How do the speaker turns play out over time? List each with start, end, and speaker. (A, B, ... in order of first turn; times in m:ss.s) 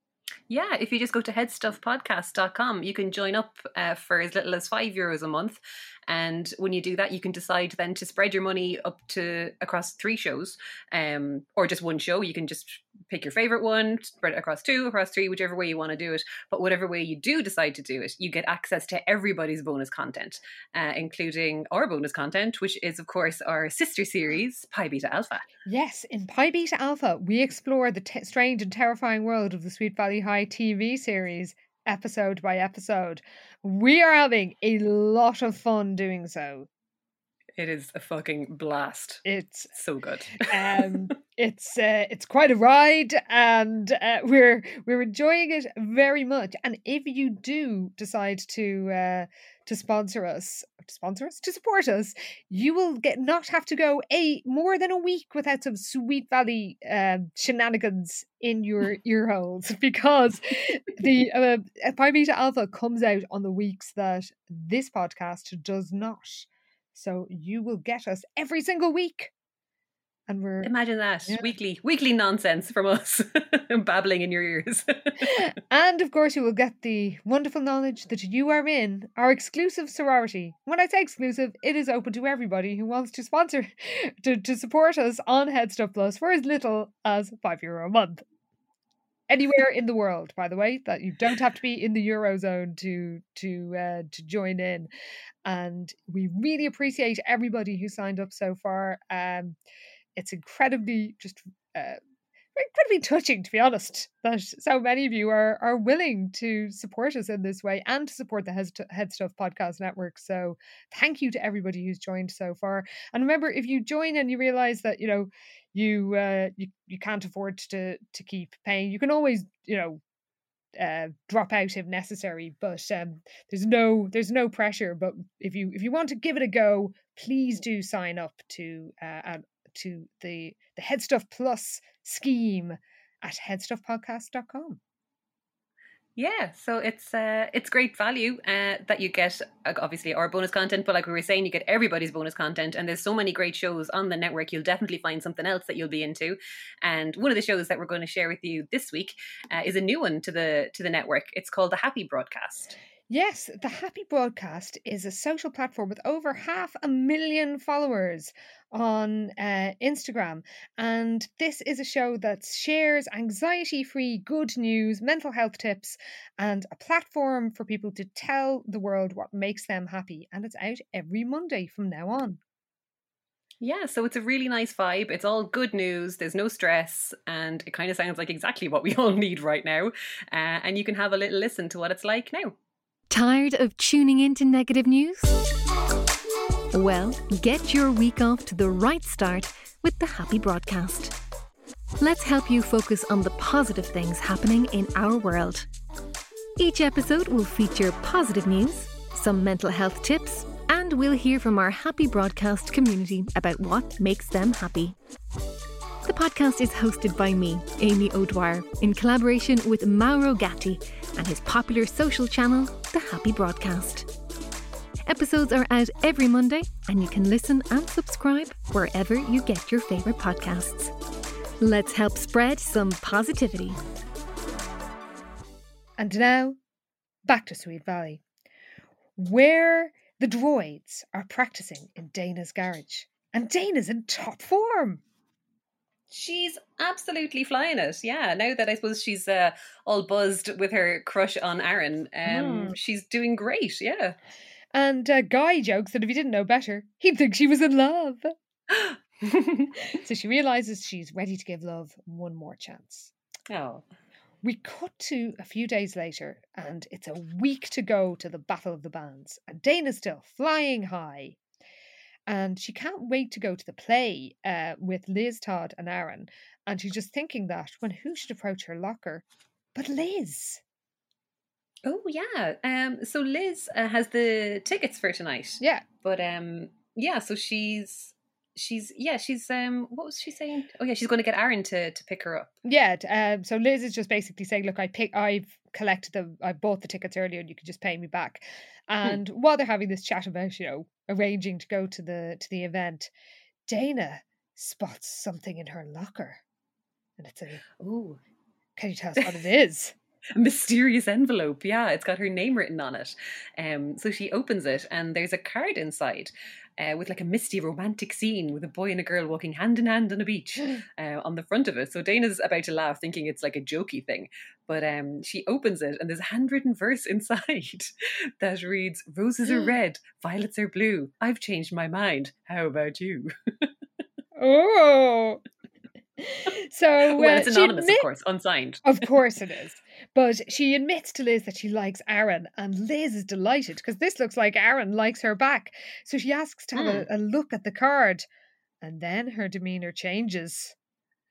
0:00.5-0:25.5 A
0:25.6-0:36.7 B
0:37.6-0:41.0 A
0:39.2-0:39.7 B
0:40.4-1:09.3 B
1:10.3-1:10.7 B
1:10.6-1:15.3 A
1:15.2-1:28.2 B
1:29.3-1:34.9 B
1:35.4-1:39.6 B
1:40.2-1:42.0 B
1:42.6-2:00.0 B
2:00.8-2:14.8 B
2:16.2-2:32.8 A
2:33.1-2:52.4 B
2:53.6-3:02.6 A
3:03.1-3:05.4 C
3:06.7-3:11.2 C
3:12.0-3:15.7 C
3:16.6-3:25.0 C
3:26.0-3:34.1 C
3:35.0-3:40.9 C
3:41.6-3:43.8 C
3:46.0-3:46.6 B
3:47.2-3:48.2 B
3:49.2-3:55.0 B
3:56.1-4:04.2 A
4:02.2-4:02.7 B
4:04.7-4:08.3 B
4:08.7-4:09.7 A
4:09.9-4:13.1 B
4:13.5-4:13.8 A
4:14.4-4:21.4 B
4:22.3-4:30.6 B
4:31.8-4:42.5 A
4:35.6-4:35.8 B
4:42.6-4:53.1 B
4:53.7-4:56.4 B
4:57.2-4:57.6 B
4:57.7-4:58.2 A
4:58.8-4:59.9 B
5:00.3-5:23.7 A
5:24.4-5:25.4 B
5:26.2-5:28.1 B
5:27.0-5:28.9 A
5:28.8-5:38.2 B
5:36.7-5:37.1 A
5:38.8-5:40.7 B